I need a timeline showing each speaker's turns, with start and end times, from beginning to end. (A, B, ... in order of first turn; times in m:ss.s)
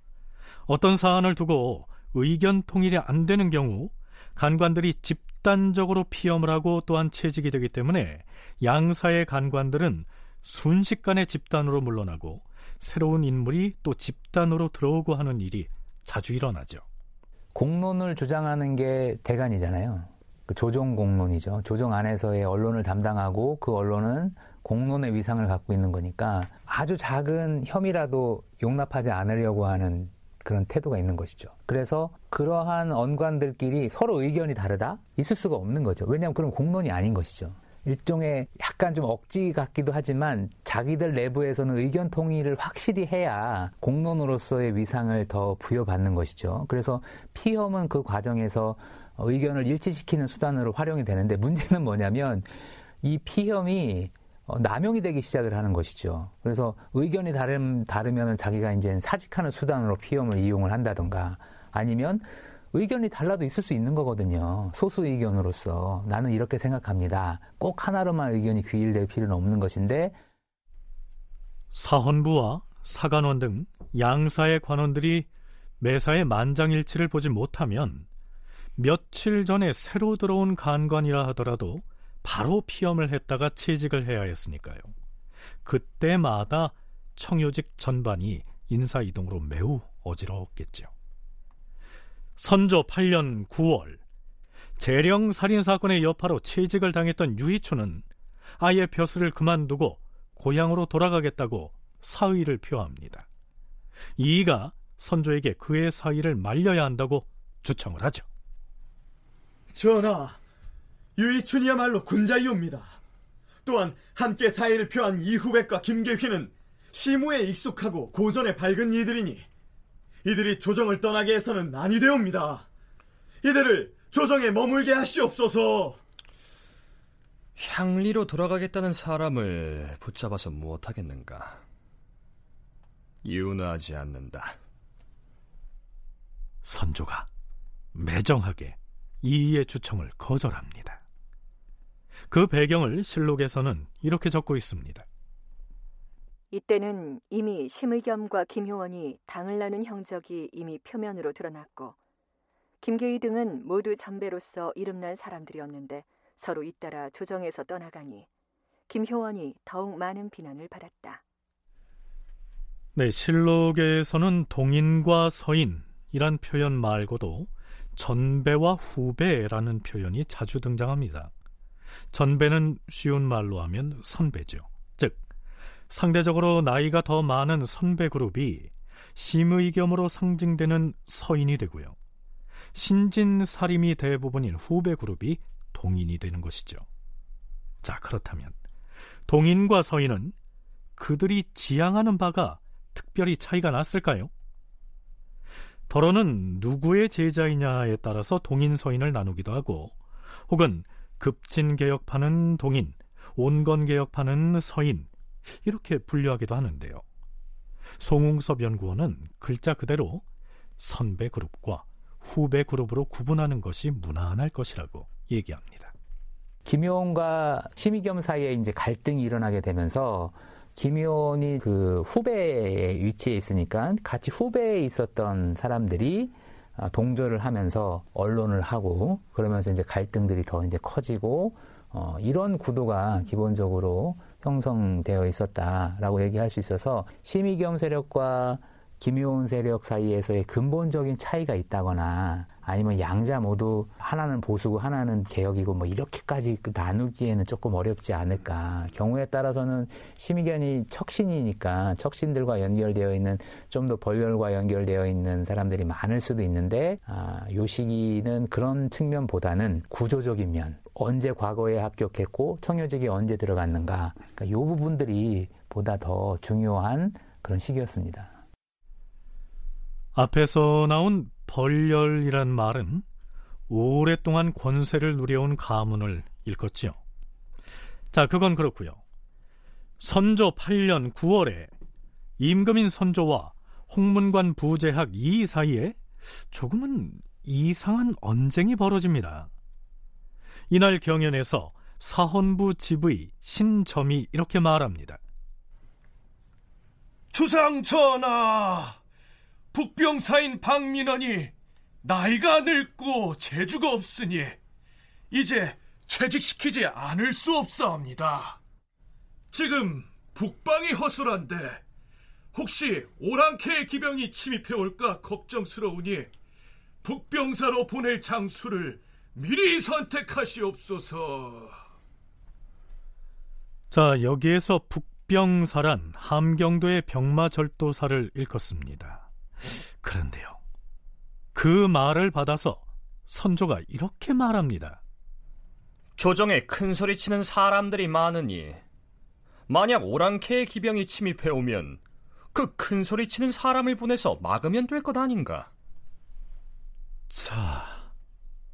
0:00.7-0:16.8 A
0:17.5-0:52.5 B
0:53.0-1:10.2 B
1:11.7-1:15.3 A
1:15.8-1:18.1 A
1:18.8-1:24.9 A
1:25.6-1:30.9 A
1:32.4-1:34.0 A
1:34.8-1:38.0 A
1:38.6-1:43.3 A
1:44.2-1:48.3 A
1:49.7-1:50.4 C
1:51.2-1:53.0 C
1:53.6-1:59.5 C
2:00.2-2:02.7 C
2:03.4-2:06.0 C
2:07.6-2:11.6 D
2:13.2-2:14.6 D
2:16.6-2:17.3 A
2:17.9-2:21.0 A
2:22.3-2:25.0 A
2:26.5-2:32.0 E
2:32.8-2:38.3 E
2:38.9-2:41.2 E
2:43.0-2:51.3 A
2:52.1-2:55.2 A
2:55.9-3:02.0 A
3:02.7-3:06.8 A
3:07.8-3:08.6 A
3:09.3-3:10.3 A
3:11.0-3:14.3 A
3:15.9-3:20.0 A
3:20.5-3:25.1 A
3:25.6-3:27.0 A
3:28.0-3:30.2 A
3:30.8-3:35.9 A
3:36.7-4:28.3 B
4:30.2-4:33.0 A
4:33.7-4:37.0 A
4:38.1-4:39.0 A
4:40.0-4:41.7 A
4:42.4-4:49.5 A
4:50.7-4:55.2 A
4:57.3-4:58.2 F
4:59.8-5:00.4 F
5:00.9-5:01.5 F
5:02.0-5:04.4 F
5:05.3-5:06.4 F
5:09.5-5:11.8 F
5:12.6-5:16.3 F
5:17.0-5:21.1 F
5:23.9-5:29.3 A
5:30.0-5:30.6 A
5:31.6-5:35.0 A
5:36.2-5:38.8 D
5:39.7-5:42.0 D
5:42.5-5:45.7 D
5:47.3-5:48.1 A